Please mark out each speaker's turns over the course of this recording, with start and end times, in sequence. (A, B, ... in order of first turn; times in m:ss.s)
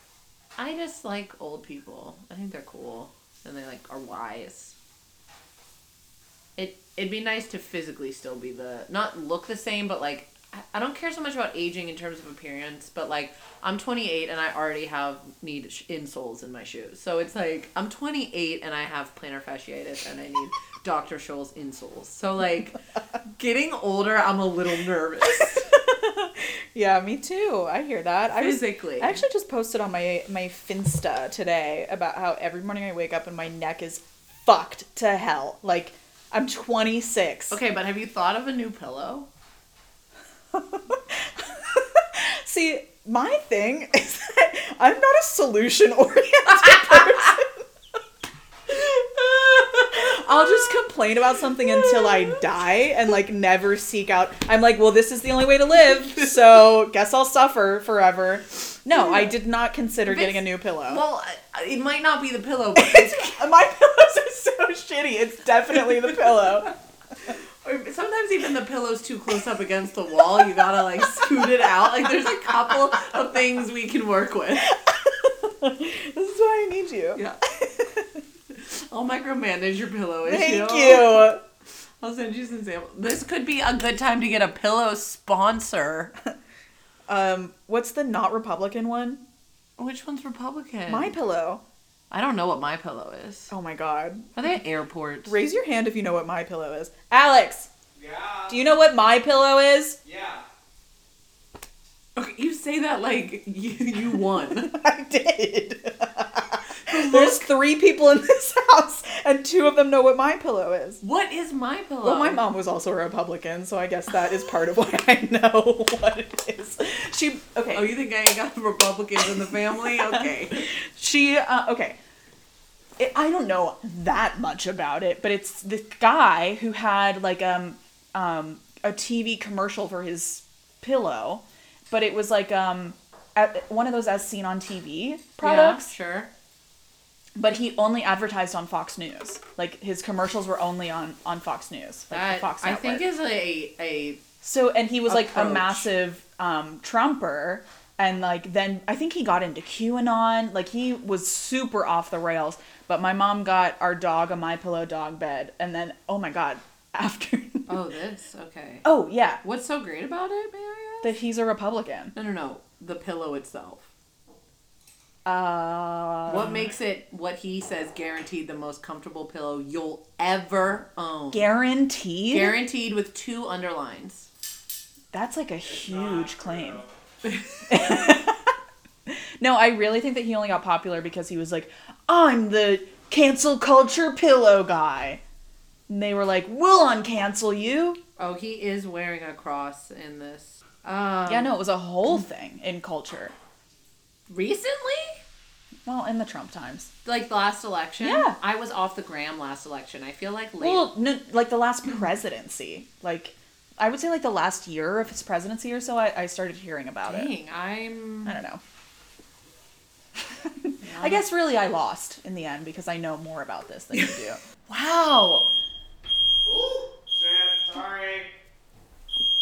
0:00.6-0:04.8 A
0:06.6-0:22.8 A
0:23.4-0:25.7 A
0:25.4-0:37.6 B
0:28.3-0:29.2 A
0:37.5-0:39.3 A
0:40.5-0:47.6 B
0:48.7-1:01.0 B
0:49.4-0:49.9 A
0:51.8-0:52.3 A
1:00.0-1:03.4 A
1:02.8-1:06.7 B
1:07.6-1:14.8 A
1:14.6-1:18.1 B
1:17.1-1:17.4 A
1:18.5-1:21.3 A
1:20.2-1:21.4 B
1:22.0-1:26.1 A
1:27.1-1:29.2 B
1:29.8-1:31.1 A
1:30.9-1:31.6 B
1:32.1-1:33.5 A
1:33.5-1:34.3 B
1:34.3-1:35.4 A
1:35.2-1:37.7 B
1:38.0-1:38.6 C
1:38.5-1:40.0 B
1:40.0-1:40.4 C
1:42.2-1:44.7 A
1:44.5-1:51.0 B
1:46.8-1:47.5 A
1:51.0-1:52.4 A
1:52.0-1:57.9 B
1:57.7-2:00.7 A
1:59.8-2:02.0 B
2:03.0-2:15.9 B
2:15.4-2:16.3 A
2:17.4-2:23.0 B
2:22.1-2:24.2 A
2:24.4-2:37.7 B
2:25.1-2:25.9 A
2:37.7-2:38.9 A
2:38.8-2:39.4 B
2:39.4-2:41.1 A
2:41.0-2:42.1 B
2:42.1-2:43.9 A
2:45.2-2:46.7 B
2:46.2-2:51.5 A
2:51.3-2:52.6 B
2:52.3-2:54.3 A
2:55.1-2:56.8 B
2:55.6-2:56.9 C
2:57.3-2:57.8 A
2:57.7-2:58.5 B
2:59.1-3:05.2 B
3:05.9-3:08.0 B
3:08.2-3:11.6 A
3:11.3-3:13.3 B
3:14.3-3:15.2 A
3:15.8-3:16.9 B
3:17.0-3:20.9 A
3:18.0-3:18.4 B
3:20.6-3:27.3 B
3:27.0-3:28.4 A
3:28.2-3:28.6 B
3:30.2-3:34.4 B
3:30.8-3:31.2 A
3:33.9-3:35.5 A
3:36.4-3:38.3 C